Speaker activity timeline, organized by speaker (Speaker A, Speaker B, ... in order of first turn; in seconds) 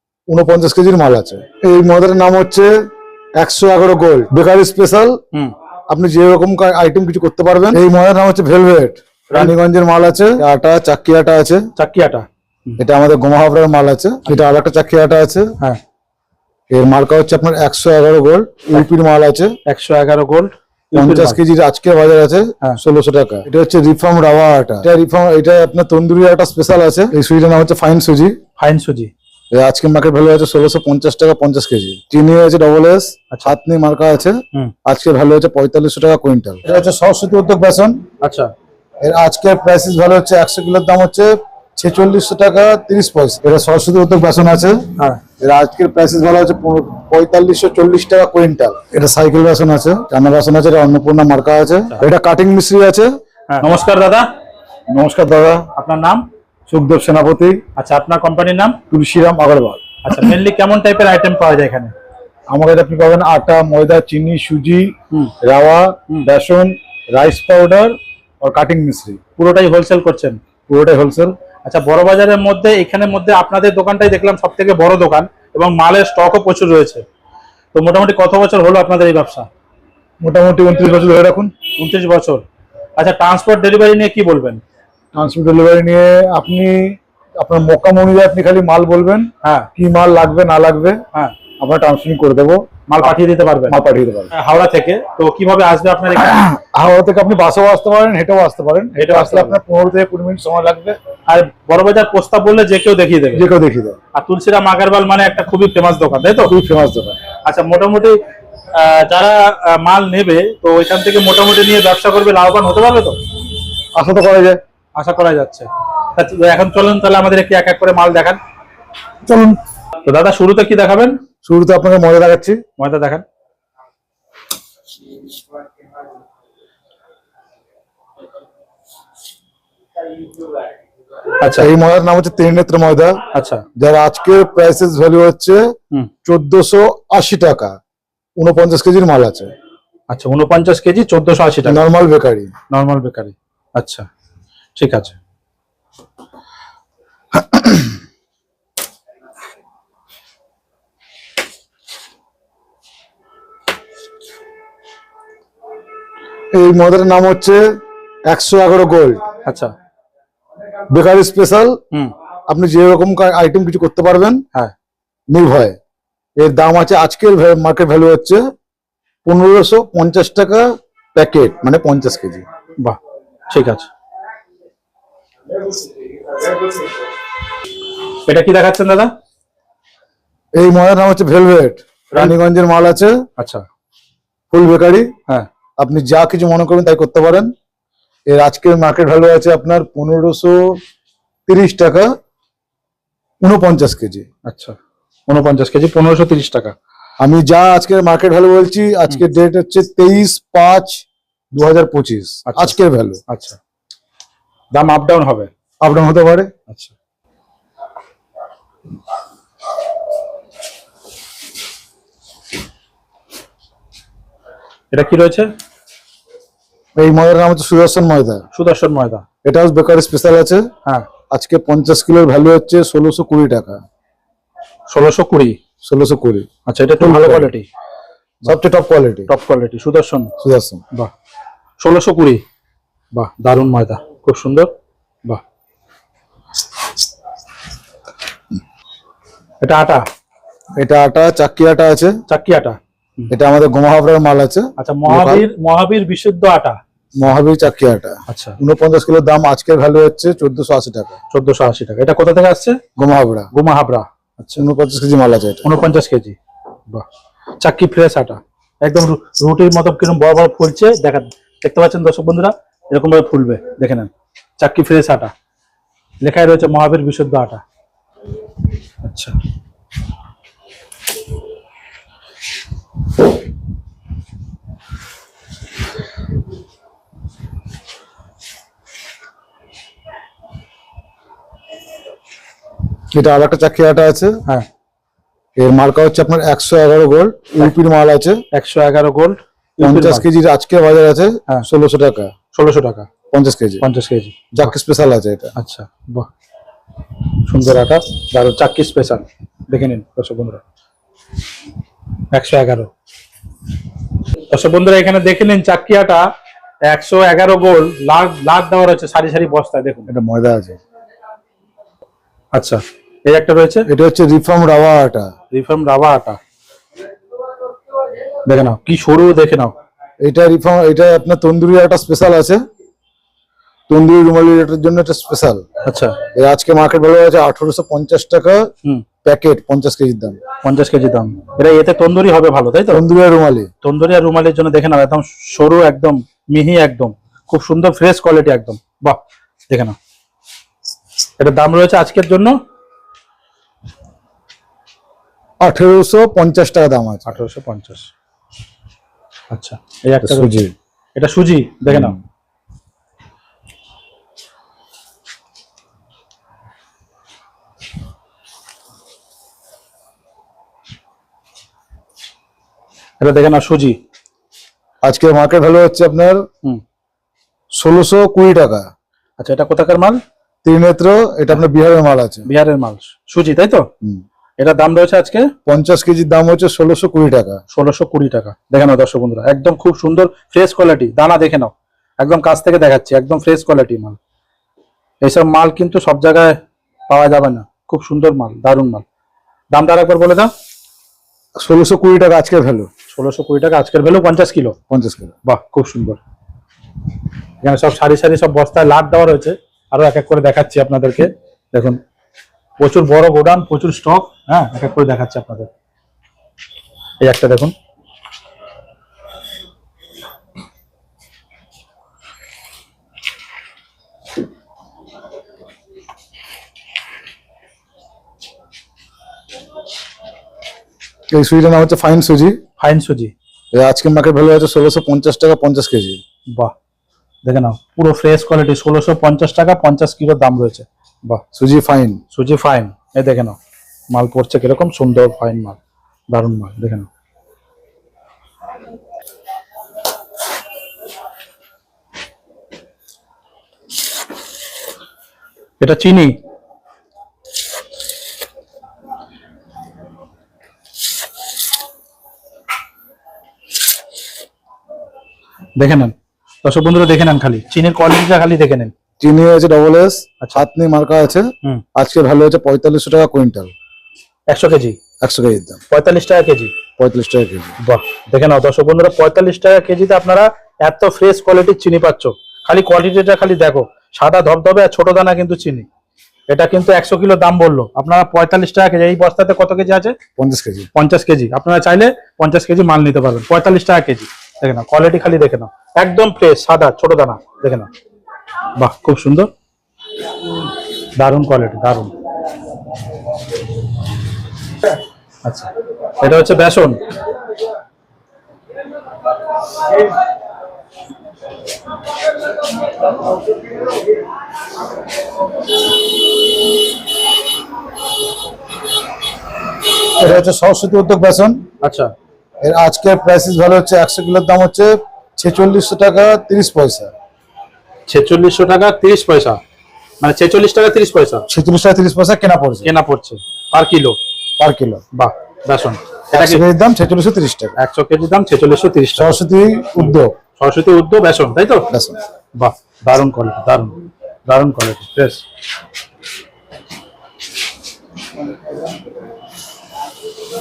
Speaker A: 0.3-2.9, 3.4-5.2, 5.9-11.7, 12.8-15.5, 16.7-19.5, 20.9-28.4, 29.5-38.0, 39.0-44.9, 45.4-53.1, 54.9-55.7, 56.7-57.6, 58.9-60.2, 62.5-69.2, 70.7-71.3, 80.2-81.6, 85.1-91.0, 91.6-93.1, 93.7-94.3, 96.2-101.0, 103.3-104.0, 106.4-107.2, 114.0-114.6, 119.2-119.6, 121.4-122.6, 131.5-133.2, 133.8-135.6, 136.2-137.7, 138.4-139.5, 141.7-142.5, 147.4-147.8, 156.5-157.7, 158.3-159.3, 160.9-161.8, 162.5-164.4, 165.3-165.8, 166.4-168.4, 169.2-172.4, 180.6-183.2, 184.5-185.1, 185.8-187.5, 188.3-190.8, 191.5-192.1, 193.4-194.3, 197.2-203.2, 205.8-206.5, 217.0-218.4, 219.4-220.7, 221.3-223.8, 225.8-226.5, 227.0-227.5, 228.5-229.3, 230.4-230.8, 240.8-242.2, 243.3-245.4, 247.2-251.2, 253.0-253.5, 254.6-255.7, 283.1-284.4, 285.6-288.4, 289.8-292.3, 293.3-293.8, 294.6-295.5, 310.1-310.8, 313.9-315.3, 320.2-322.6, 323.9-325.7, 326.4-328.7, 329.2-330.4, 332.9-333.7, 345.6-347.4, 350.2-350.7, 351.9-352.2, 365.0-366.4, 367.8-368.9, 370.6-372.5, 375.7-377.6, 391.6-392.9, 394.9-395.4, 421.3-422.6, 423.7-426.2, 431.6-432.2, 459.2-463.7, 465.2-465.8, 467.0-467.8, 480.4-480.9, 510.2-511.6, 512.6-517.1, 521.5-522.9, 524.6-525.0, 526.3-527.7, 529.2-530.3, 531.9-532.2
Speaker B: 9.3-9.6, 11.8-12.8, 19.7-21.4, 28.6-29.1, 38.2-38.5, 53.5-54.3, 55.7-56.3, 57.8-58.8, 60.0-61.9, 69.4-70.4, 71.6-77.0, 77.7-79.5, 81.7-82.4, 83.0-84.6, 89.4-89.7, 92.9-93.8, 94.3-96.4, 99.0-99.6, 101.3-103.4, 104.1-106.5, 107.4-108.2, 108.7-113.2, 115.0-118.4, 120.0-121.2, 122.8-123.2, 131.4-131.7, 133.3-133.7, 140.1-141.8, 142.7-144.1, 144.8-145.2, 159.4-159.7, 173.5-173.9, 178.3-179.1, 183.4-183.6, 194.5-194.8, 195.3-196.7, 202.5-202.8, 203.3-203.6, 204.7-205.5, 214.9-215.5, 218.5-219.2, 224.9-225.6, 226.7-227.7, 229.3-230.3, 231.8-232.4, 233.1-234.7, 239.6-240.0, 242.3-243.3, 244.8-246.8, 248.3-248.6, 251.3-252.8, 253.5-254.6, 255.6-256.4, 257.6-265.3, 266.2-267.6, 269.0-269.4, 288.5-290.2, 292.5-293.1, 293.8-294.8, 295.6-296.3, 297.5-300.6, 302.3-302.9, 304.5-306.3, 306.9-310.1, 312.5-313.9, 315.5-316.4, 318.4-319.7, 325.9-326.2, 330.6-333.0, 333.8-340.0, 341.4-342.6, 347.3-348.1, 349.5-350.6, 351.2-352.2, 363.2-364.0, 369.4-370.2, 372.5-373.9, 374.6-375.5, 377.7-384.2, 385.2-389.1, 389.7-390.5, 393.1-394.8, 395.5-396.2, 397.6-402.0, 402.8-405.7, 407.2-407.7, 422.8-423.3, 427.5-431.4, 432.3-433.6, 434.1-435.8, 436.3-437.1, 445.8-446.4, 455.8-458.9, 464.5-465.0, 465.9-466.8, 467.8-475.9, 476.5-480.2, 480.9-487.9, 488.8-489.5, 491.2-492.1, 495.4-497.0, 511.8-512.1, 518.1-519.6, 520.2-521.5, 522.8-524.2, 525.1-526.6, 527.8-529.3, 530.0-531.9, 532.6-535.4